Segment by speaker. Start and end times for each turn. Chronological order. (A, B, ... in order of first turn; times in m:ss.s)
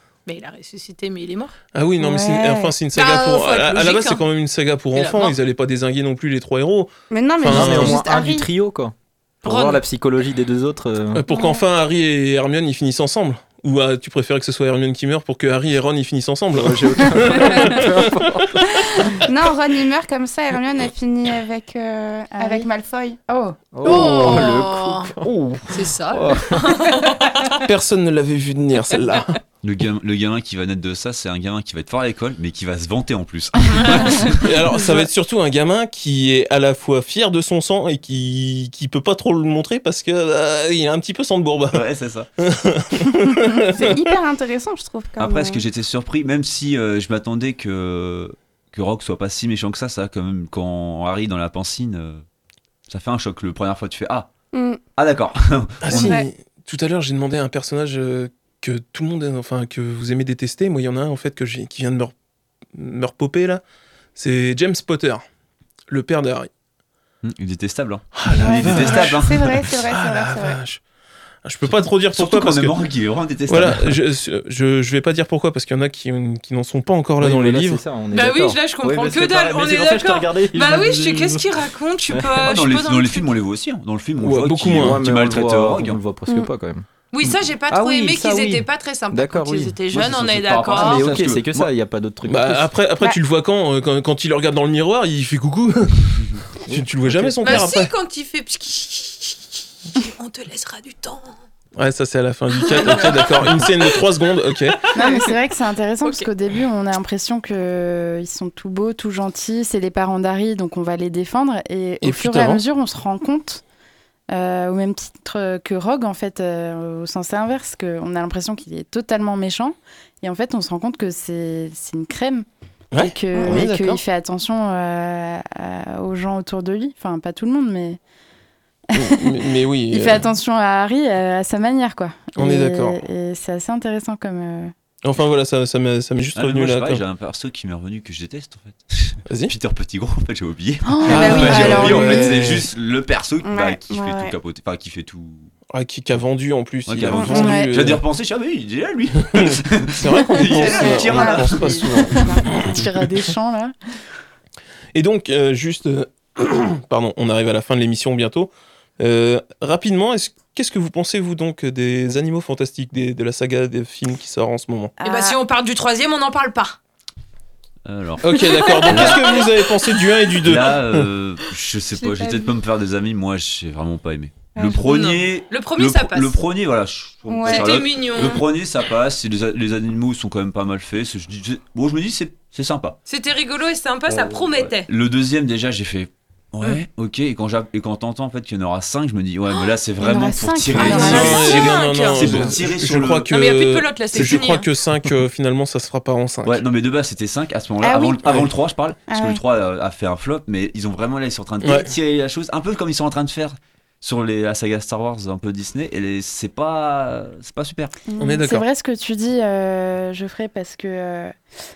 0:00.2-0:01.5 A
0:01.7-0:08.0 B
0:02.0-0:02.7 C
0:02.9-0:04.2 A
0:04.9-0:05.4 A
0:07.1-0:08.5 C
0:07.4-0:11.2 D
0:09.4-0:09.8 A
0:11.1-0:18.1 B
0:11.3-0:11.6 C
0:16.5-0:19.2 D
0:17.2-0:17.8 C
0:18.6-0:23.2 C
0:22.3-0:22.7 E
0:23.3-0:23.6 E
0:23.7-0:26.8 D
0:23.8-0:25.1 A
0:25.7-0:27.6 A
0:27.6-0:29.4 B
0:29.6-0:34.7 F
0:33.6-0:34.2 A
0:34.4-0:41.8 B
0:41.7-0:42.3 F
0:42.4-0:44.1 B
0:43.7-0:45.6 C
0:45.2-0:52.2 F
0:52.9-0:54.3 F
0:54.5-0:54.8 C
0:55.0-0:56.2 F
0:55.8-1:02.1 B
0:55.9-0:56.3 C
1:02.7-1:03.6 B
1:04.2-1:05.2 B
1:05.9-1:06.5 B
1:07.2-1:09.7 F
1:08.1-1:10.8 B
1:08.4-1:10.6 C
1:11.4-1:12.9 B
1:11.6-1:14.0 F
1:13.5-1:17.8 B
1:17.2-1:22.6 D
1:18.1-1:23.3 A
1:22.4-1:26.0 F
1:24.2-1:25.0 B
1:24.7-1:26.8 D
1:27.1-1:31.1 A
1:27.7-1:29.8 D
1:29.9-1:31.7 F
1:30.7-1:32.7 D
1:32.2-1:37.9 B
1:36.7-1:37.7 D
1:37.4-1:41.4 A
1:41.8-1:45.0 B
1:42.6-1:43.8 A
1:44.9-1:45.2 A
1:44.9-1:53.6 E
1:52.0-1:52.6 B
1:54.3-2:02.4 E
2:02.9-2:04.0 B
2:03.0-2:08.0 E
2:03.3-2:03.7 C
2:08.9-2:10.2 B
2:08.9-2:14.7 E
2:12.4-2:13.0 B
2:15.0-2:17.0 B
2:16.3-2:25.5 F
2:19.3-2:19.5 B
2:20.9-2:22.2 E
2:21.0-2:22.3 C
2:21.0-2:22.7 B
2:23.4-2:24.4 C
2:25.7-2:28.0 B
2:26.8-2:32.1 F
2:27.2-2:27.6 C
2:27.2-2:27.7 E
2:29.2-2:33.2 B
2:30.4-2:32.5 C
2:31.2-2:33.7 E
2:34.9-2:44.9 B
2:45.0-2:45.4 E
2:45.0-2:46.8 A
2:47.8-2:49.5 F
2:48.2-2:51.1 B
2:48.7-2:49.4 A
2:50.4-3:03.0 F
2:52.0-2:52.6 C
2:54.5-2:54.8 C
2:54.8-2:56.4 A
2:57.3-2:57.8 C
2:57.4-2:58.4 A
3:03.0-3:04.9 A
3:04.1-3:13.3 F
3:09.5-3:09.8 A
3:10.0-3:11.5 E
3:10.6-3:11.6 C
3:10.7-3:12.4 A
3:10.8-3:16.6 B
3:13.3-3:14.7 A
3:16.4-3:28.0 F
3:17.8-3:18.2 C
3:19.1-3:19.4 C
3:21.6-3:21.9 B
3:28.1-3:28.4 C
3:28.1-3:31.3 E
3:28.2-3:28.6 B